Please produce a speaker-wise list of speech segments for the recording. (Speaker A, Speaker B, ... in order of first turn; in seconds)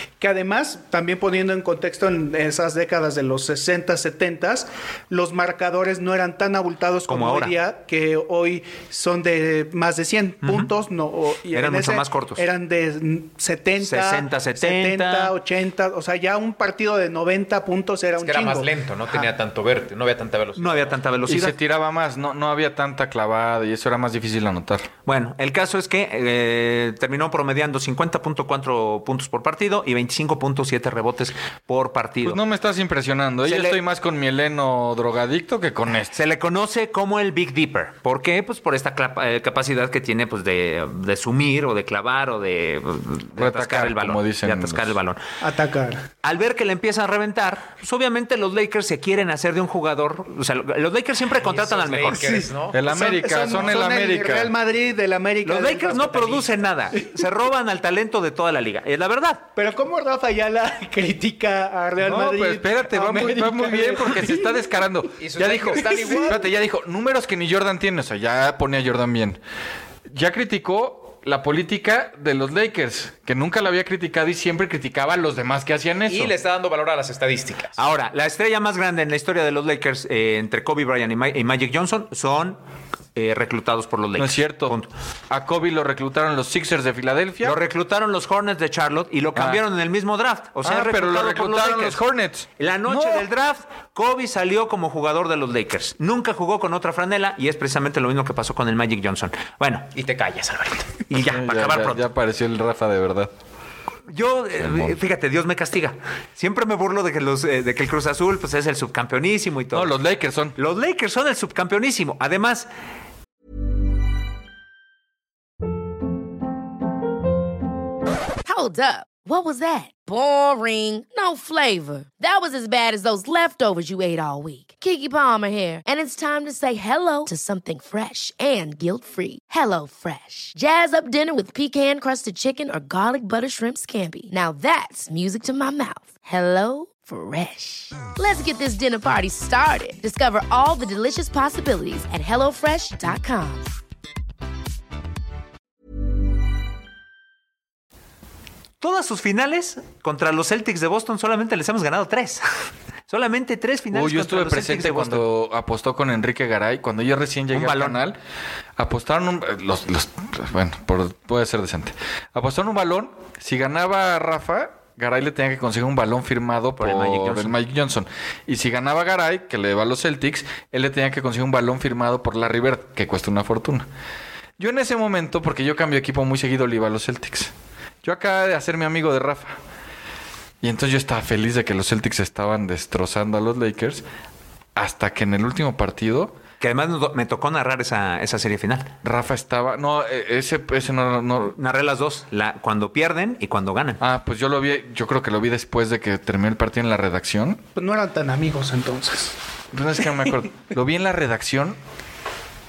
Speaker A: 0.2-19.2, 45.4-46.0, 52.1-57.0, 59.5-64.5, 65.8-66.4, 197.8-199.3
Speaker B: 7.1-7.5, 10.4-10.7, 11.5-12.5, 13.8-15.3, 20.6-21.6, 25.1-32.4, 33.4-33.8, 36.1-45.2, 46.2-52.4, 55.4-59.4, 77.8-82.6, 83.1-84.9, 87.4-92.0, 92.6-99.9, 101.1-102.0, 104.1-109.9, 110.5-112.7, 148.8-152.4, 153.1-155.3, 157.5-158.0, 166.8-167.6, 186.6-188.9, 191.5-194.0
Speaker C: 18.2-20.9, 51.4-52.8, 65.2-66.5, 76.1-77.8, 99.9-101.0
Speaker D: 21.2-24.9, 32.2-36.2, 43.4-45.0, 52.7-54.5, 62.0-69.4, 70.1-76.3, 84.2-84.8, 85.3-87.6, 89.3-89.6, 90.6-93.3, 101.2-103.3, 104.6-105.0, 109.7-110.5, 153.9-158.2, 158.8-173.9, 174.6-177.5, 178.0-179.6, 180.6-184.0, 184.8-186.4, 189.0-191.6, 194.0-197.6, 199.7-201.8
Speaker E: 118.4-143.7